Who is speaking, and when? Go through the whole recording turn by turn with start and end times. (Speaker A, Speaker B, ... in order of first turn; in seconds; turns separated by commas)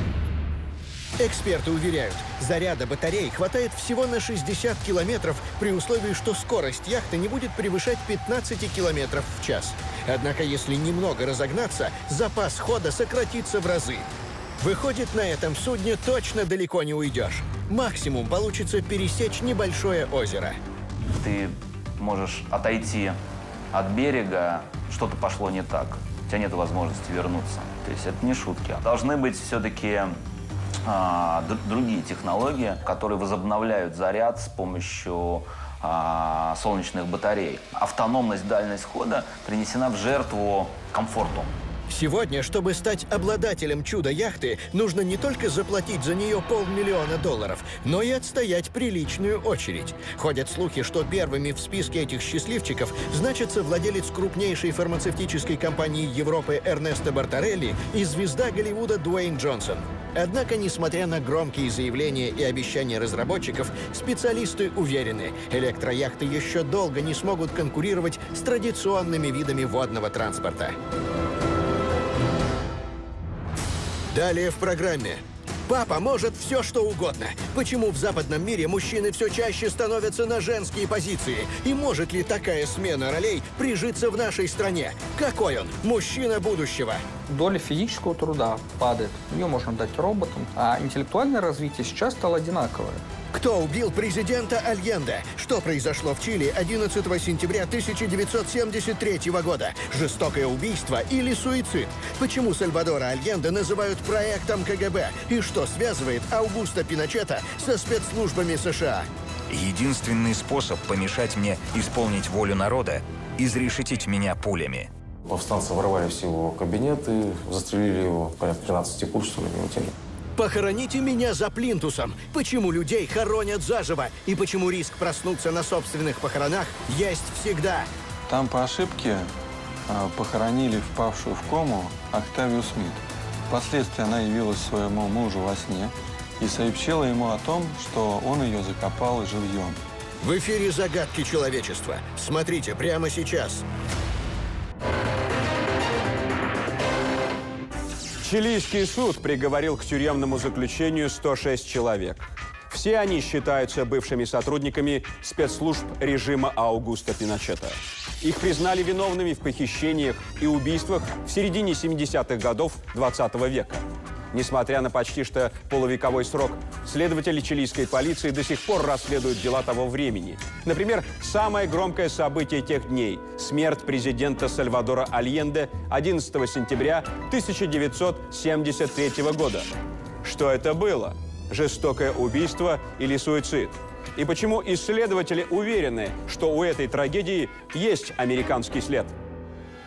Speaker A: 1.2-14.1, Speaker A: 14.6-20.6, Speaker B: 21.2-23.2, Speaker B: 23.7-30.2, Speaker B: 30.9-41.5, Speaker A: 41.9-70.8, Speaker A: 74.1-87.0, Speaker C: 87.3-93.0, Speaker A: 93.3-109.1, Speaker D: 109.5-114.9, Speaker E: 115.3-119.9, Speaker A: 120.4-127.9, Speaker F: 128.3-129.3, Speaker F: 129.9-139.8, Speaker A: 140.2-143.7, Speaker G: 148.2-189.2